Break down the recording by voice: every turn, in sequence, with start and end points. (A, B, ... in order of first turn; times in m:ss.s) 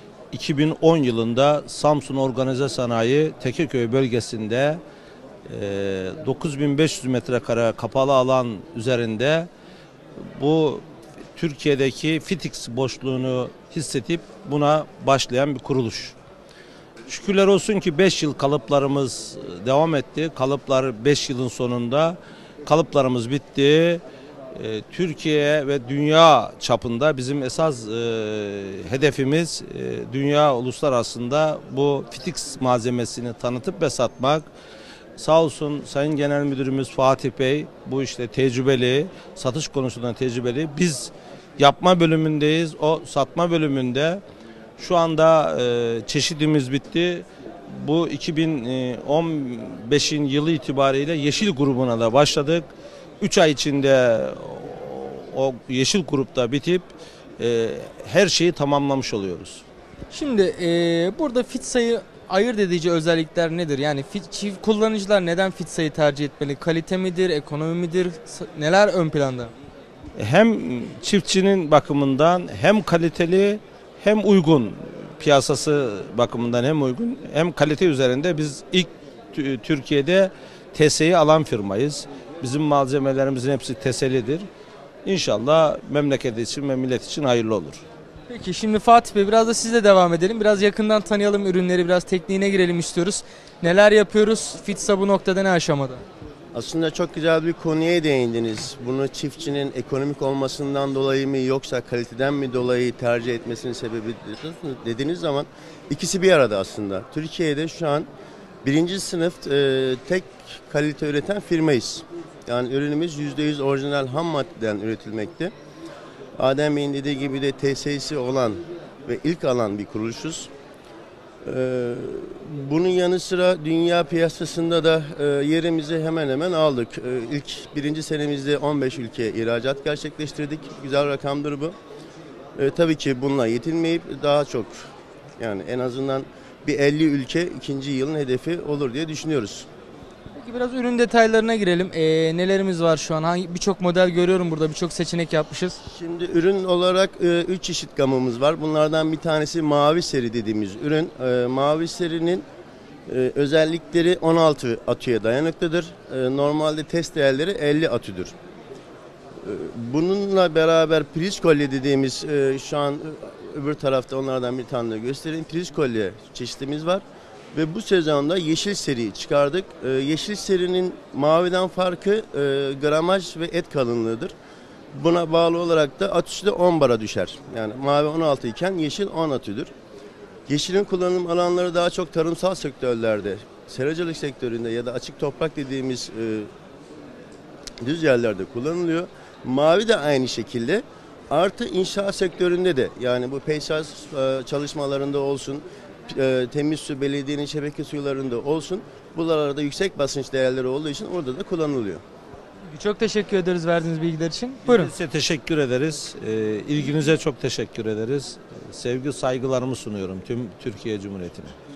0:00.3-0:04.8 A
0:05.5-0:09.5 A
0:10.4-0:10.8 A
0:11.4-0:16.2 A
0:17.1-0:24.0 A
0:24.5-0:34.5 A
0:35.2-0:44.2 A
0:44.8-0:52.6 A
0:53.2-0:59.6 A
1:00.1-1:09.5 B
1:10.2-1:24.5 A
1:25.0-1:27.8 A
1:28.3-1:36.0 B
1:36.5-1:48.1 C
1:48.6-1:55.5 C
1:56.4-2:00.5 C
2:01.4-2:11.8 C
2:12.6-2:14.9 C
2:15.4-2:19.7 C
2:20.4-2:25.8 B
2:25.9-2:32.4 C
2:33.1-2:38.3 C
2:39.4-2:54.3 C
2:54.9-2:59.7 C
3:00.5-3:06.5 C
3:07.8-3:22.0 C
3:22.7-3:24.9 B
3:24.7-3:31.6 A